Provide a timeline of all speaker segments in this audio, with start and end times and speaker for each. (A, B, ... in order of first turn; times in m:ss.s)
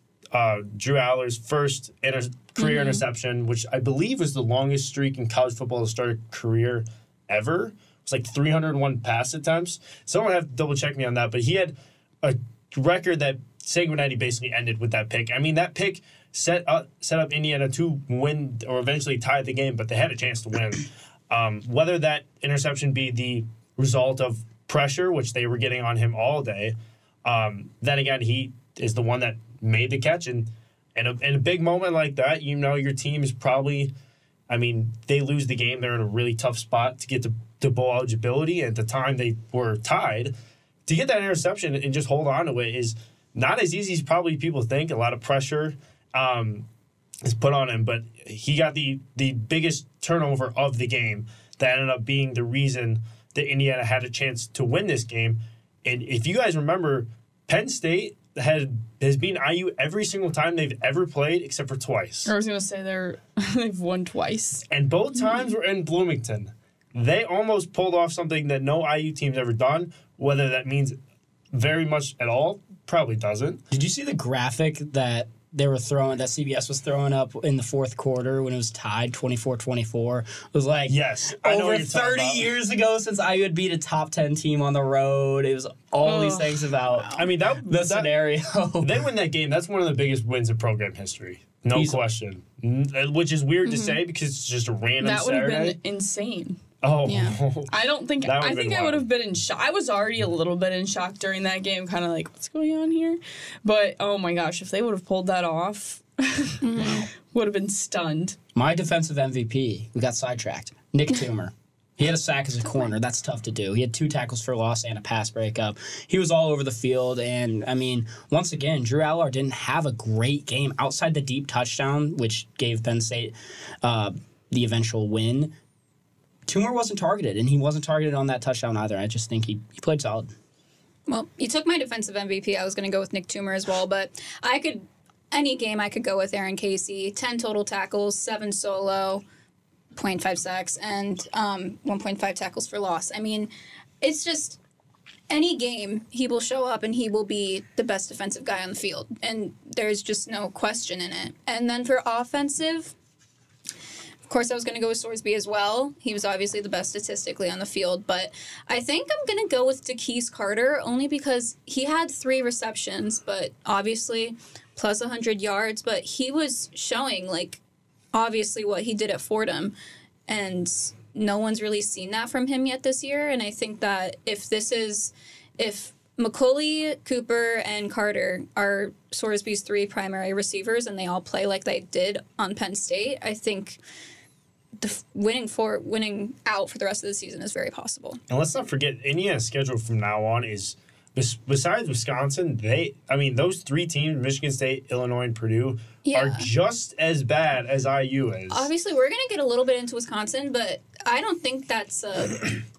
0:00.3-0:33.9 A
0:02.6-0:03.0 B
0:34.5-0:40.4 A
0:40.9-0:46.7 A
0:47.2-1:02.3 A
1:02.3-1:04.6 C
1:04.7-1:11.0 A
1:11.5-1:13.6 A
1:13.7-1:29.0 D
1:20.9-1:22.5 A
1:26.0-1:26.6 C
1:26.9-1:27.2 B
1:27.1-1:28.2 A
1:28.8-1:35.8 A
1:31.7-1:32.0 D
1:33.6-1:34.0 B
1:35.0-1:36.6 C
1:36.8-1:39.0 A
1:37.0-1:37.4 B
1:37.7-1:48.4 C
1:46.6-1:47.1 B
1:48.6-2:05.6 D
2:06.5-2:10.3 D
2:11.1-2:19.2 B
2:20.0-2:24.6 B
2:25.3-2:32.9 B
2:34.3-2:47.6 B
2:48.1-2:49.7 B
2:50.3-3:03.8 B
3:04.8-3:08.2 B
3:08.3-3:18.7 A
3:16.0-3:16.5 B
3:18.5-3:22.6 B